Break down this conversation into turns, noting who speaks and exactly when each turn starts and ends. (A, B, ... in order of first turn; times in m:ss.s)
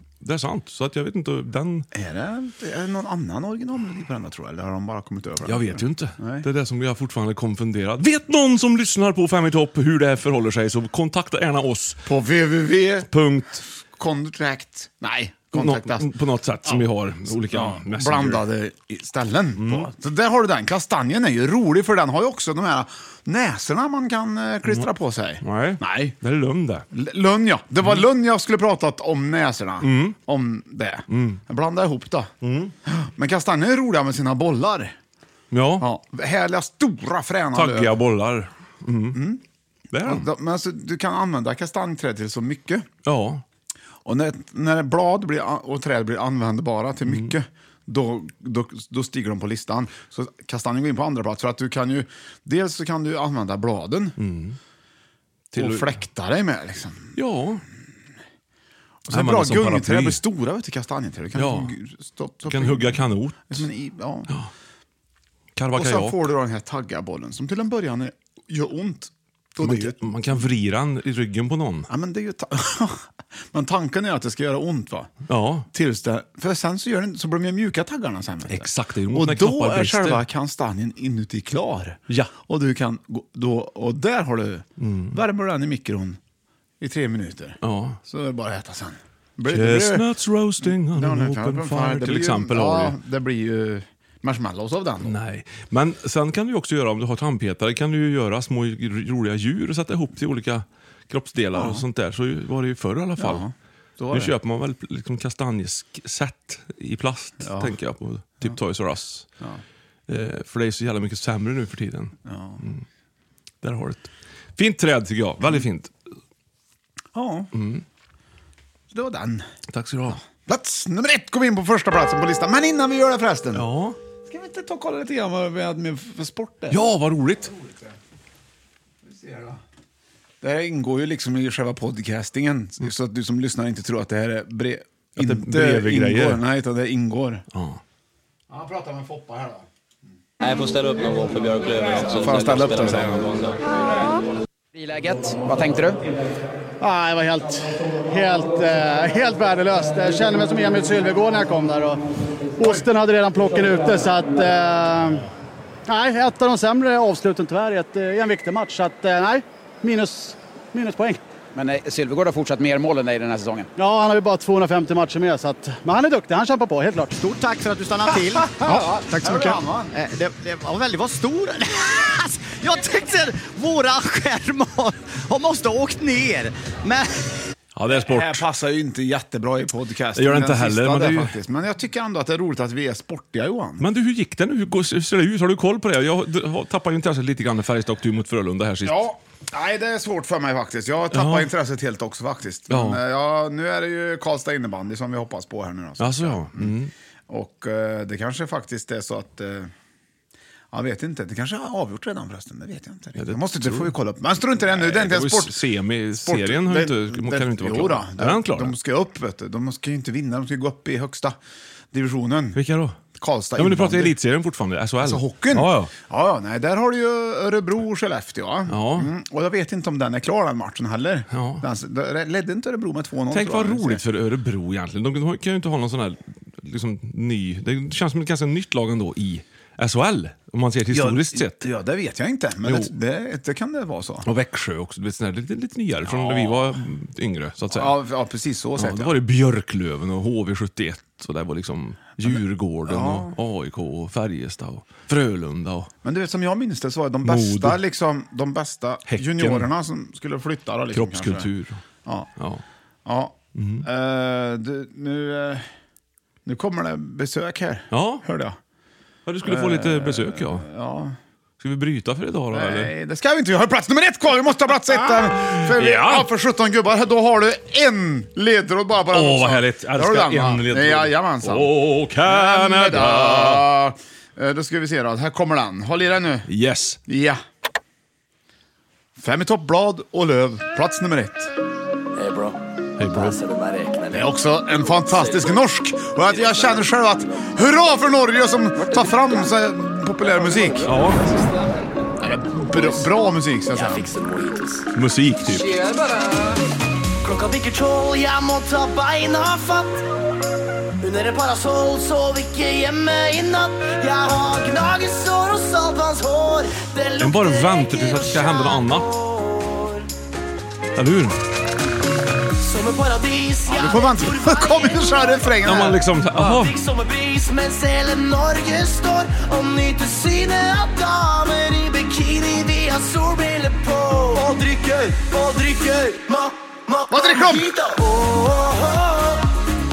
0:00.2-0:01.9 A
0:01.9-0:06.5 B
0:05.4-0:12.0 A
0:12.1-0:13.1 B
0:13.1-0:13.6 A
0:13.9-0:16.1 B
0:15.6-0:18.5 A
0:17.4-0:26.2 B
0:19.6-0:19.9 A
0:25.4-0:26.8 A
0:26.9-0:32.3 B
0:29.8-0:30.2 A
0:31.1-0:31.4 A
0:32.4-0:32.7 A
0:32.9-0:35.0 B
0:35.5-0:35.8 A
0:35.8-0:38.0 B
0:37.5-0:39.2 A
0:39.1-0:39.4 B
0:39.9-0:40.3 A
0:40.0-0:42.9 B
0:43.0-0:43.4 A
0:44.0-0:54.2 B
0:47.1-0:47.3 A
0:54.2-0:54.6 A
0:55.5-0:56.0 A
0:55.6-0:57.1 B
0:57.2-0:57.6 A
0:59.1-1:04.3 B
0:59.1-1:00.2 A
1:01.4-1:01.7 A
1:02.5-1:03.6 A
1:05.6-1:06.2 A
1:05.8-1:10.1 B
1:09.6-1:11.9 A
1:11.9-1:15.1 B
1:15.3-1:15.7 A
1:15.7-1:26.2 B
1:18.5-1:20.2 A
1:22.1-1:22.3 A
1:24.8-1:25.2 A
1:26.8-1:30.1 B
1:27.6-1:28.0 A
1:29.5-1:33.0 A
1:30.6-1:35.2 B
1:35.0-1:43.4 A
1:41.6-1:41.8 B
1:43.2-1:44.3 B
1:44.1-1:49.3 A
1:47.4-1:47.8 B
1:50.1-1:52.8 A
1:52.3-1:52.6 B
1:53.6-1:55.9 A
1:57.1-1:57.5 B
1:57.5-1:57.8 A
1:58.9-1:59.5 B
1:59.7-2:00.2 A
2:00.1-2:03.7 B
2:03.5-2:04.0 A
2:04.3-2:06.9 B
2:06.7-2:07.5 A
2:07.4-2:08.0 B
2:09.0-2:09.6 B
2:10.4-2:17.4 B
2:15.2-2:16.4 A
2:17.5-2:17.8 A
2:18.5-2:19.7 B
2:20.4-2:23.6 C
2:22.2-2:23.3 B
2:24.7-2:26.0 D
2:26.8-2:32.0 E
2:32.6-2:35.3 E
2:35.9-2:41.2 E
2:41.6-2:43.7 D
2:43.8-2:47.2 E
2:47.3-2:48.7 F
2:48.6-2:49.9 B
2:50.0-2:51.2 F
2:52.6-2:56.2 F
2:57.8-2:58.4 A
2:57.9-3:03.8 B
3:00.2-3:01.3 A
3:03.8-3:09.0 A
3:08.8-3:16.7 B
3:11.1-3:11.5 A
3:12.7-3:13.0 A
3:16.0-3:16.9 A
3:17.3-3:19.7 B
3:20.7-3:25.6 B
3:23.2-3:23.9 A
3:24.6-3:28.7 A
3:26.2-3:31.4 B
3:31.9-3:32.6 B
3:32.6-3:33.0 A
3:33.1-3:34.2 B
3:33.6-3:35.9 A
3:35.0-3:44.0 B
3:38.7-3:39.1 A
3:41.3-3:41.6 A
3:43.3-3:51.7 A
3:50.9-3:54.3 B
3:52.6-3:52.9 A
3:54.3-3:58.0 A
3:56.0-3:56.8 B
3:57.7-3:59.2 B
3:58.8-4:05.9 A
4:02.2-4:03.4 B
4:06.0-4:11.5 B
4:07.2-4:07.8 A
4:09.1-4:09.7 A
4:10.9-4:11.8 A
4:12.4-4:12.6 A
4:13.0-4:15.7 B
4:13.6-4:13.9 A
4:16.4-4:18.6 B
4:17.9-4:18.2 A
4:19.3-4:20.6 A
4:19.4-4:21.2 B
4:21.6-4:22.9 A
4:22.5-4:36.5 B
4:25.4-4:26.3 A
4:29.1-4:33.7 A
4:36.5-4:37.0 A
4:37.1-4:37.4 B
4:39.2-4:41.5 B
4:43.0-4:43.4 A
4:44.1-4:50.9 B
4:50.8-4:51.3 A
4:52.2-4:54.1 B
4:54.9-4:55.7 A
4:55.5-4:56.6 G
4:57.2-5:00.0 G
5:01.0-5:10.0 G
5:07.2-5:09.1 A
5:11.0-5:11.4 A
5:12.6-5:15.5 G
5:13.7-5:16.0 B
5:15.6-5:16.8 A
5:16.5-5:29.5 G
5:27.1-5:27.7 B